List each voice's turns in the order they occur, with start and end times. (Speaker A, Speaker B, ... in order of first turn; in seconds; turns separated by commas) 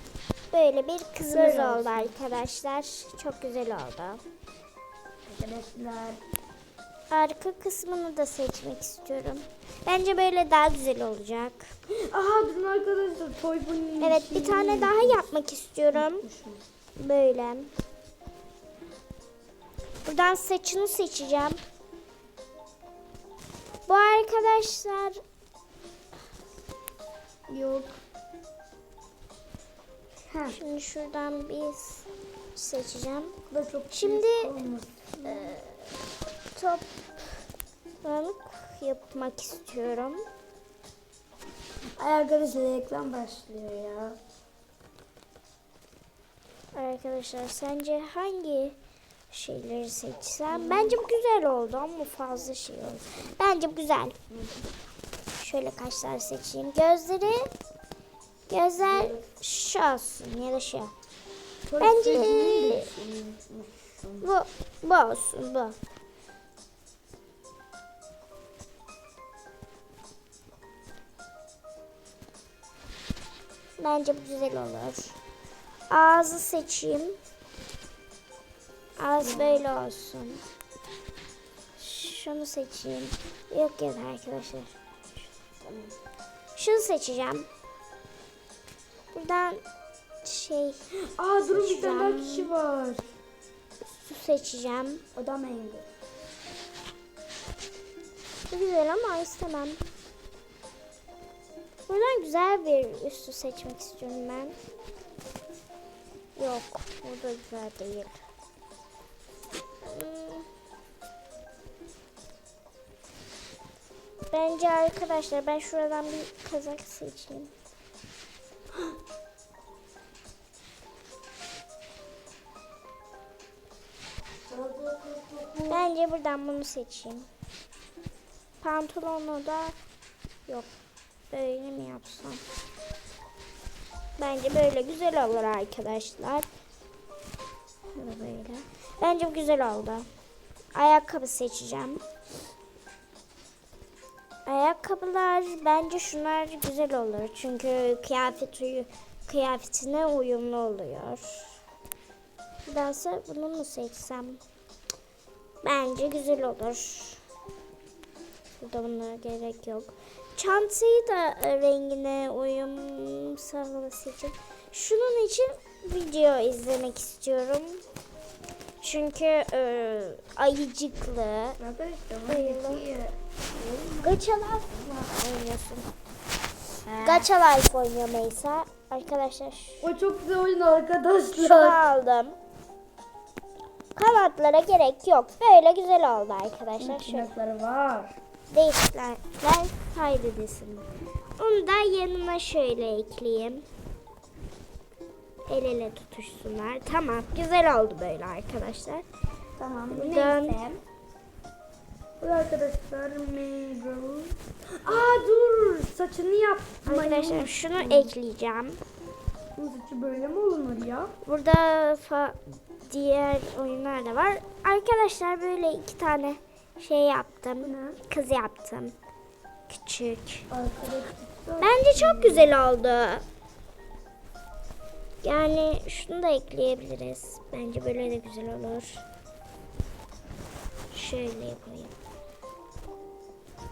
Speaker A: 0.5-4.2, Speaker B: 1.3-2.1, Speaker B: 5.3-6.2, Speaker A: 7.1-11.7, Speaker B: 12.0-15.2, Speaker A: 14.0-16.2, Speaker B: 15.9-16.6, Speaker A: 17.0-17.7, Speaker A: 20.0-21.6, Speaker A: 23.9-25.2, Speaker B: 27.5-28.0, Speaker B: 30.3-30.6, Speaker A: 30.5-33.3, Speaker B: 33.5-35.5, Speaker A: 33.9-34.5, Speaker A: 35.2-35.9, Speaker A: 36.5-37.0, Speaker A: 38.0-40.2, Speaker B: 42.0-44.2, Speaker A: 46.7-48.8, Speaker A: 49.3-54.1, Speaker B: 50.5-51.0, Speaker A: 55.4-57.5, Speaker A: 58.5-60.9, Speaker B: 58.8-59.2, Speaker B: 61.7-64.3, Speaker A: 61.8-62.9, Speaker A: 64.2-65.8, Speaker A: 73.8-75.2, Speaker A: 75.9-77.2, Speaker A: 79.0-80.4, Speaker B: 79.2-79.7, Speaker A: 81.8-84.7, Speaker B: 85.6-85.9, Speaker A: 86.5-87.5, Speaker A: 89.1-89.6, Speaker A: 90.2-90.8, Speaker B: 91.0-93.1, Speaker A: 91.5-92.5, Speaker A: 93.8-95.0, Speaker B: 95.1-95.9, Speaker A: 98.5-99.8, Speaker A: 101.9-104.6, Speaker A: 106.3-108.2, Speaker A: 109.8-110.5, Speaker A: 114.3-117.5, Speaker B: 124.5-125.8, Speaker A: 125.7-127.3, Speaker A: 128.6-129.8, Speaker A: 131.3-132.4, Speaker A: 134.2-136.5, Speaker A: 137.9-140.1, Speaker A: 140.7-142.0, Speaker A: 144.4-151.6, Speaker A: 152.7-154.4, Speaker A: 155.6-157.2, Speaker A: 158.6-167.8, Speaker A: 168.8-171.6, Speaker B: 171.6-174.1, Speaker A: 172.3-172.9, Speaker A: 174.0-175.9, Speaker B: 176.9-177.2, Speaker A: 176.9-179.9, Speaker B: 179.8-181.8, Speaker A: 181.3-182.3, Speaker A: 183.9-187.3, Speaker B: 186.8-188.2, Speaker A: 188.5-193.7, Speaker A: 195.5-199.0, Speaker B: 199.6-200.8, Speaker A: 199.9-200.6, Speaker B: 202.2-208.1, Speaker A: 206.8-208.8, Speaker B: 209.6-211.2, Speaker A: 211.2-218.9, Speaker B: 217.6-218.0, Speaker A: 219.7-220.4, Speaker B: 220.5-222.5, Speaker A: 221.6-223.2, Speaker A: 225.2-229.0, Speaker A: 230.9-231.9